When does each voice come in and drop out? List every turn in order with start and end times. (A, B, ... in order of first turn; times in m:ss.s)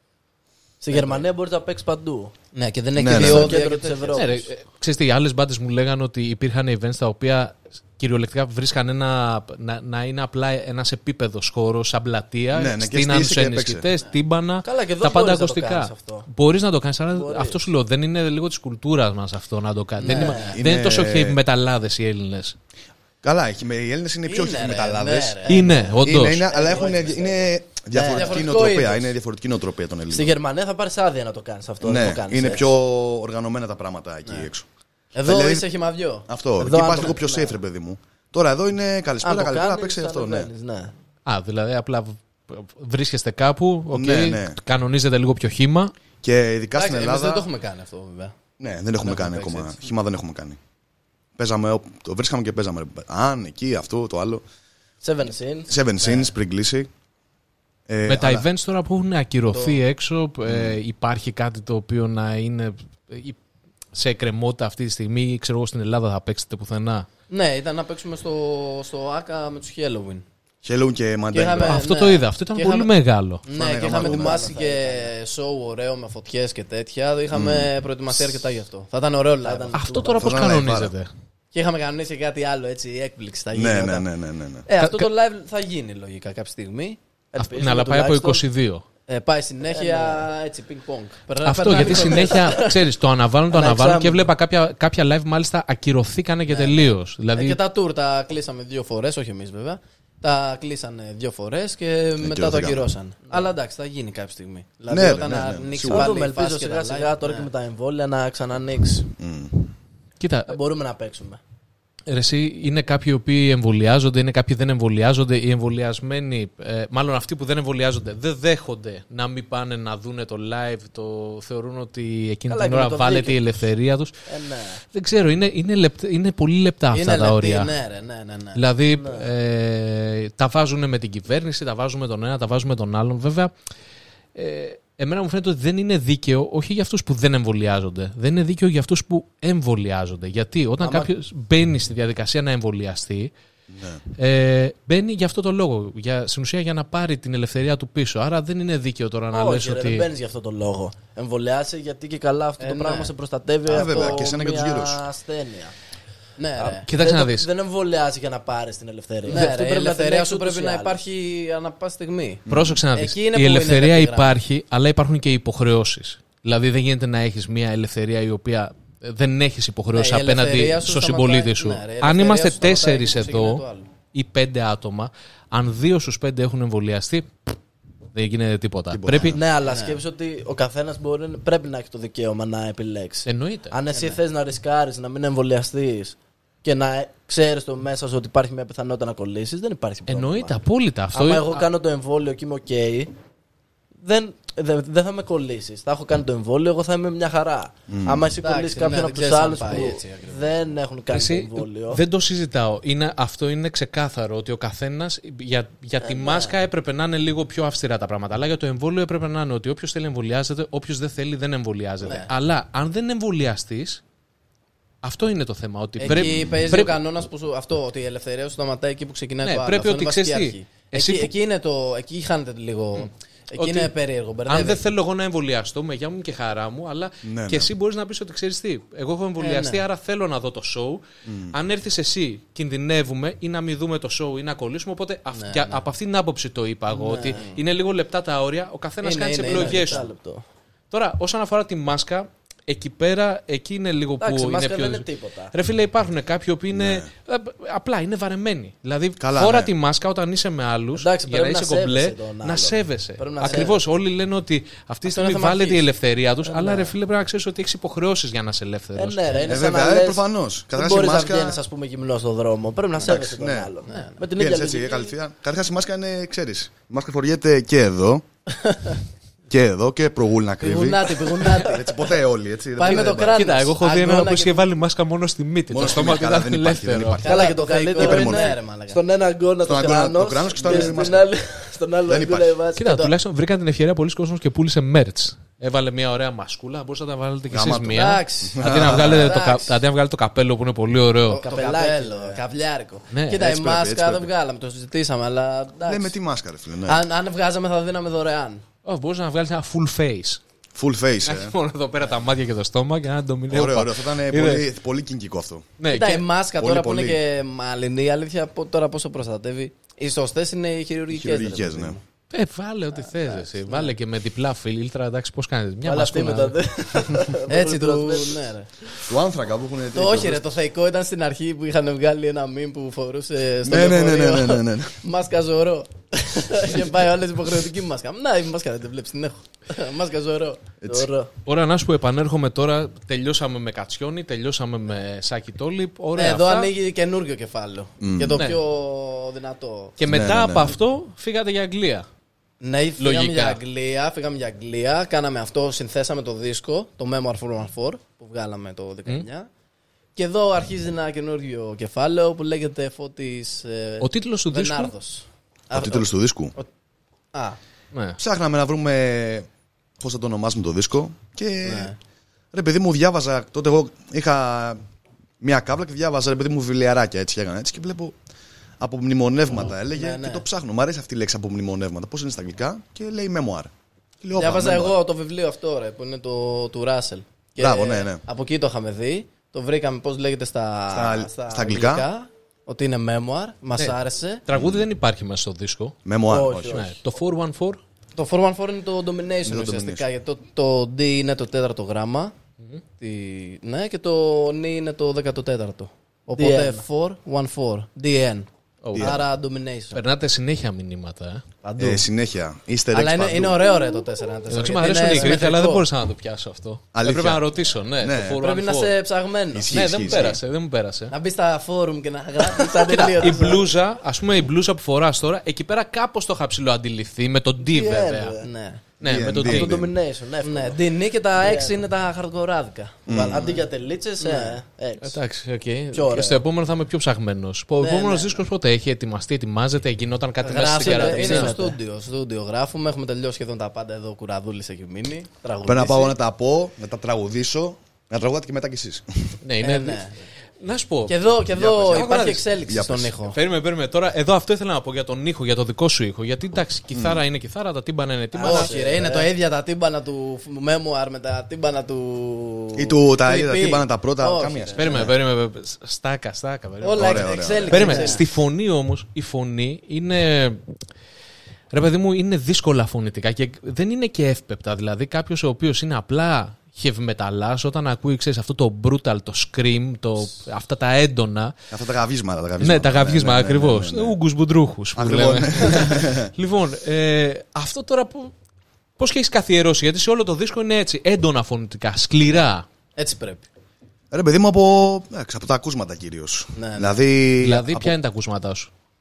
0:00.8-0:02.3 A
0:00.9-0:01.3 B
0:02.5-0:04.3 B
0:03.0-0:03.6 C
0:03.1-0:04.5 A
0:04.1-0:22.6 D
0:12.5-0:13.9 C
0:14.6-0:16.2 A
0:17.1-0:17.6 A
0:20.0-0:20.6 B
0:20.0-0:20.5 A
0:20.5-0:21.4 C
0:23.2-0:30.3 C
0:24.2-0:25.8 B
0:25.5-0:26.4 D
0:26.4-0:28.5 A
0:28.1-0:29.1 B
0:30.1-0:32.7 A
0:31.8-0:34.6 C
0:35.1-0:36.3 B
0:35.2-0:35.6 C
0:36.3-0:40.5 C
0:36.6-0:37.6 A
0:39.2-0:40.9 A
0:41.2-0:45.9 D
0:43.9-0:44.6 C
0:46.2-0:47.4 C
0:46.7-0:48.3 B
0:48.6-0:50.6 C
0:49.0-0:49.8 B
0:51.4-0:54.4 C
0:55.0-0:56.3 A
0:55.7-0:56.9 C
0:57.9-0:58.4 C
0:58.1-1:03.4 D
0:59.5-0:59.8 B
1:00.4-1:00.8 C
1:03.9-1:07.1 D
1:07.3-1:10.2 B
1:10.6-1:11.8 C
1:11.3-1:12.9 B
1:11.6-1:13.4 D
1:13.4-1:19.8 B
1:13.5-1:14.5 C
1:13.9-1:15.1 A
1:17.3-1:17.7 C
1:19.4-1:20.5 A
1:19.7-1:21.1 D
1:20.2-1:20.9 C
1:21.5-1:24.0 B
1:23.5-1:24.6 C
1:24.6-1:27.0 B
1:24.8-1:25.1 D
1:27.3-1:28.4 A
1:27.4-1:28.8 D
1:29.1-1:32.8 B
1:29.6-1:30.3 A
1:31.4-1:37.6 D
1:31.8-1:32.5 A
1:33.5-1:34.3 A
1:36.5-1:47.5 B
1:42.2-1:42.9 C
1:44.9-1:46.1 C
1:45.8-1:49.1 A
1:49.2-1:49.7 C
1:50.2-1:50.6 D
1:50.5-1:51.4 A
1:52.1-2:04.1 D
2:02.5-2:03.5 A
2:04.3-2:04.8 A
2:04.9-2:07.7 D
2:06.9-2:08.6 B
2:08.6-2:13.5 D
2:08.9-2:09.3 A
2:14.3-2:23.3 D
2:20.8-2:21.1 A
2:23.7-2:24.0 C
2:24.2-2:30.1 D
2:29.3-2:35.7 A
2:32.6-2:33.1 B
2:33.7-2:35.0 C
2:33.7-2:34.3 B
2:36.4-2:36.9 B
2:36.6-2:41.0 A
2:36.8-2:37.5 D
2:39.2-2:44.4 B
2:42.5-2:42.8 C
2:42.5-2:57.3 D
2:49.9-2:53.9 B
2:58.1-2:59.4 D
2:58.9-2:59.4 C
2:59.2-3:10.6 A
2:59.6-3:00.0 B
3:03.2-3:03.8 D
3:03.9-3:04.2 B
3:10.1-3:11.7 D
3:11.1-3:13.1 A
3:14.0-3:22.0 A
3:17.9-3:18.3 C
3:18.4-3:20.5 B
3:21.1-3:34.0 D
3:26.0-3:26.5 A
3:32.0-3:32.3 B
3:35.0-3:37.0 D
3:36.0-3:44.8 B
3:36.0-3:36.7 C
3:39.4-3:41.3 D
3:43.6-3:43.9 D
3:44.5-4:00.1 D
3:47.2-3:47.7 C
3:49.4-3:49.8 B
3:51.2-3:51.5 C
3:55.3-3:55.8 B
3:57.0-3:57.6 B
3:59.0-4:00.1 B
3:59.4-4:00.4 A
4:00.9-4:19.4 D
4:04.2-4:05.5 A
4:06.7-4:07.1 C
4:09.2-4:09.7 C
4:11.0-4:13.8 A
4:15.0-4:15.8 B
4:16.4-4:16.9 A
4:19.0-4:25.1 A
4:19.5-4:21.6 C
4:23.0-4:23.7 C
4:23.9-4:24.2 B
4:24.3-4:28.2 C
4:28.5-4:29.0 B
4:29.5-4:33.4 C
4:30.6-4:32.0 B
4:32.8-4:34.7 B
4:33.0-4:37.2 D
4:35.7-4:38.5 C
4:37.2-4:39.0 B
4:37.2-4:43.1 A
4:39.6-4:41.3 C
4:40.6-4:41.0 B
4:42.1-4:42.5 C
4:42.8-4:51.4 D
4:47.5-4:49.4 C
4:47.9-4:49.8 B
4:51.3-4:56.1 B
4:51.3-4:52.4 A
4:53.1-4:53.5 D
4:53.3-4:54.3 C
4:55.8-4:57.0 C
4:56.8-4:58.6 B
4:58.8-5:00.4 D
5:00.7-5:01.5 C
5:01.2-5:04.7 D
5:03.5-5:05.7 C
5:05.8-5:06.2 D
5:05.9-5:12.0 B
5:06.6-5:07.2 C
5:11.1-5:12.0 C
5:12.3-5:16.6 D
5:13.0-5:13.9 B
5:15.8-5:18.4 A
5:17.5-5:18.7 B
5:19.0-5:20.6 C
5:19.9-5:30.6 B
5:23.6-5:25.0 C
5:30.8-5:31.1 C
5:30.9-5:31.3 A
5:31.4-5:36.7 D
5:36.2-5:40.0 B
5:38.0-5:38.4 C
5:40.0-5:42.1 D
5:40.0-5:40.7 C
5:42.6-5:49.5 B
5:43.0-5:43.6 D
5:50.2-5:56.7 B
5:54.0-5:54.9 D
5:55.7-5:56.5 C
5:57.9-5:58.2 D
5:58.2-5:59.5 C
6:00.0-6:01.9 C
6:01.6-6:02.0 B
6:02.5-6:04.8 C
6:05.4-6:08.1 C
6:08.8-6:13.7 C
6:09.7-6:10.4 B
6:14.2-6:14.9 C
6:14.3-6:24.4 B
6:17.6-6:18.2 C
6:20.9-6:22.1 C
6:24.5-6:26.0 D
6:24.5-6:24.8 C
6:26.0-6:26.8 C
6:26.3-6:27.0 A
6:26.6-6:27.8 D
6:28.2-6:32.3 B
6:29.4-6:30.0 C
6:33.0-6:40.0 B
6:36.4-6:36.8 A
6:38.8-6:39.2 D
6:38.9-6:39.2 C
6:39.9-6:41.4 D
6:41.6-6:42.0 B
6:41.8-6:43.6 C
6:42.9-6:45.8 B
6:44.5-6:49.0 D
6:46.9-6:47.4 C
6:48.0-6:48.4 C
6:48.4-6:50.4 B
6:49.5-6:50.4 C
6:49.7-6:51.1 D
6:51.1-6:53.6 B
6:52.4-6:53.6 A
6:52.9-6:58.4 D
6:57.6-6:58.5 A
6:58.4-6:58.8 B
6:59.0-6:59.9 D
6:59.0-6:59.9 C
6:59.4-7:01.8 A
7:00.4-7:03.7 B
7:03.1-7:03.5 C
7:03.1-7:05.2 A
7:04.2-7:04.6 B
7:05.0-7:11.6 D
7:05.9-7:06.4 A
7:07.8-7:08.3 B
7:08.0-7:08.3 A
7:10.4-7:16.1 B
7:10.8-7:11.8 A
7:15.6-7:19.3 C
7:19.4-7:20.1 D
7:19.6-7:20.2 B
7:20.6-7:22.4 D
7:21.1-7:23.4 B
7:22.7-7:23.1 C
7:23.3-7:28.7 D
7:26.9-7:27.2 C
7:28.3-7:29.3 A
7:28.4-7:35.1 B
7:32.8-7:35.1 C
7:34.8-7:40.6 D
7:36.8-7:38.2 B
7:37.0-7:37.8 C
7:37.6-7:38.2 A
7:41.7-7:51.5 D
7:51.7-7:54.2 C
7:52.6-7:58.3 D
7:54.9-7:56.3 C
7:59.0-8:02.6 D
8:03.0-8:03.4 B
8:04.1-8:07.9 C
8:06.5-8:07.0 B
8:07.4-8:08.7 D